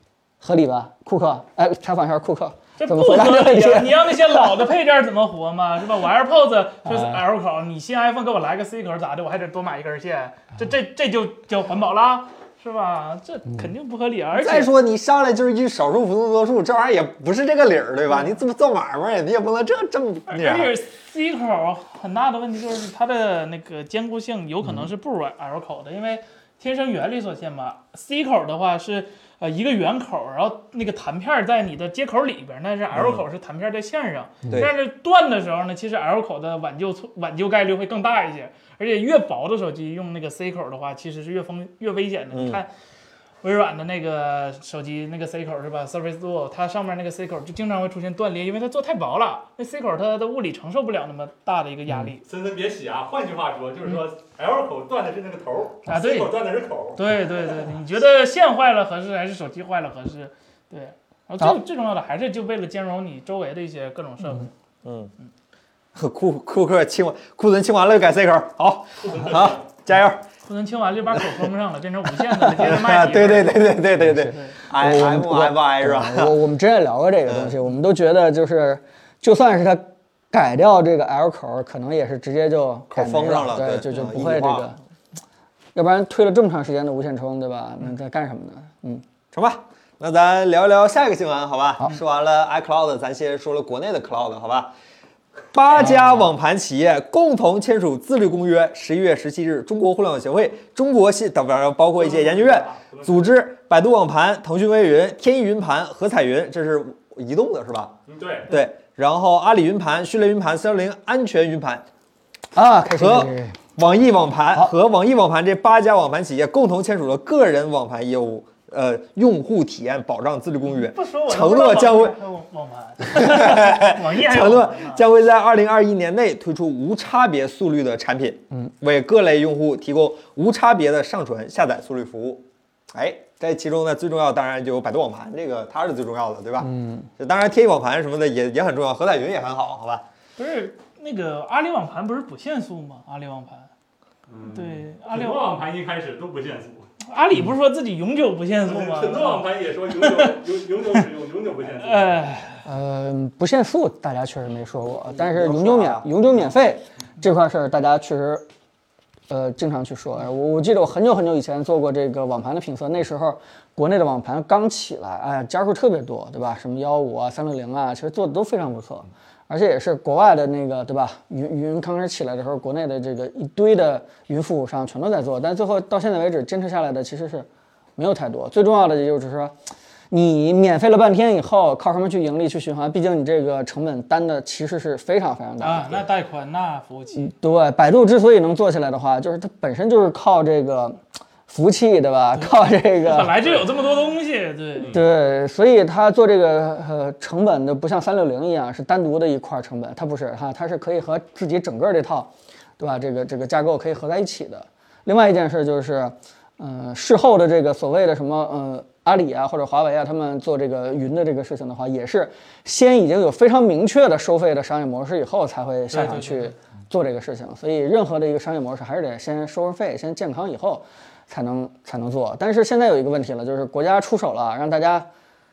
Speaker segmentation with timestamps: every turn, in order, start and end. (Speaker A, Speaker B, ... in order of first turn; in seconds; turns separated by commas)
Speaker A: 0.4-4.6, Speaker B: 2.8-14.7, Speaker A: 6.8-7.2, Speaker C: 14.3-20.7, Speaker B: 20.3-42.7, Speaker C: 32.9-33.2, Speaker C: 42.3-42.6, Speaker B: 43.4-52.2, Speaker D: 52.2-57.0, Speaker B: 55.9-56.3, Speaker B: 56.9-64.5, Speaker C: 64.8-65.1, Speaker C: 65.9-70.2, Speaker D: 69.0-69.6, Speaker B: 70.4-73.8, Speaker C: 72.5-76.4, Speaker A: 74.0-84.8, Speaker B: 74.3-74.5, Speaker C: 77.3-77.5, Speaker C: 82.9-84.7, Speaker A: 85.7-89.0, Speaker C: 89.3-94.7, Speaker C: 95.5-107.9, Speaker A: 95.8-96.3, Speaker D: 101.9-103.3, Speaker D: 108.1-108.5, Speaker C: 108.5-111.8, Speaker A: 112.5-113.6, Speaker C: 113.0-122.2, Speaker B: 120.6-125.0, Speaker C: 123.0-140.0, Speaker A: 136.6-137.1, Speaker B: 140.4-143.7, Speaker D: 144.3-146.9, Speaker B: 144.5-145.4, Speaker B: 147.0-150.4, Speaker D: 148.6-152.2, Speaker B: 151.8-152.6, Speaker A: 152.6-158.4, Speaker C: 155.1-156.1, Speaker A: 159.3-179.5, Speaker A: 180.1-186.0, Speaker B: 185.6-187.3, Speaker A: 187.2-193.6, Speaker B: 192.3-194.9, Speaker D: 194.8-195.1, Speaker A: 194.9-225.1, Speaker B: 215.9-216.5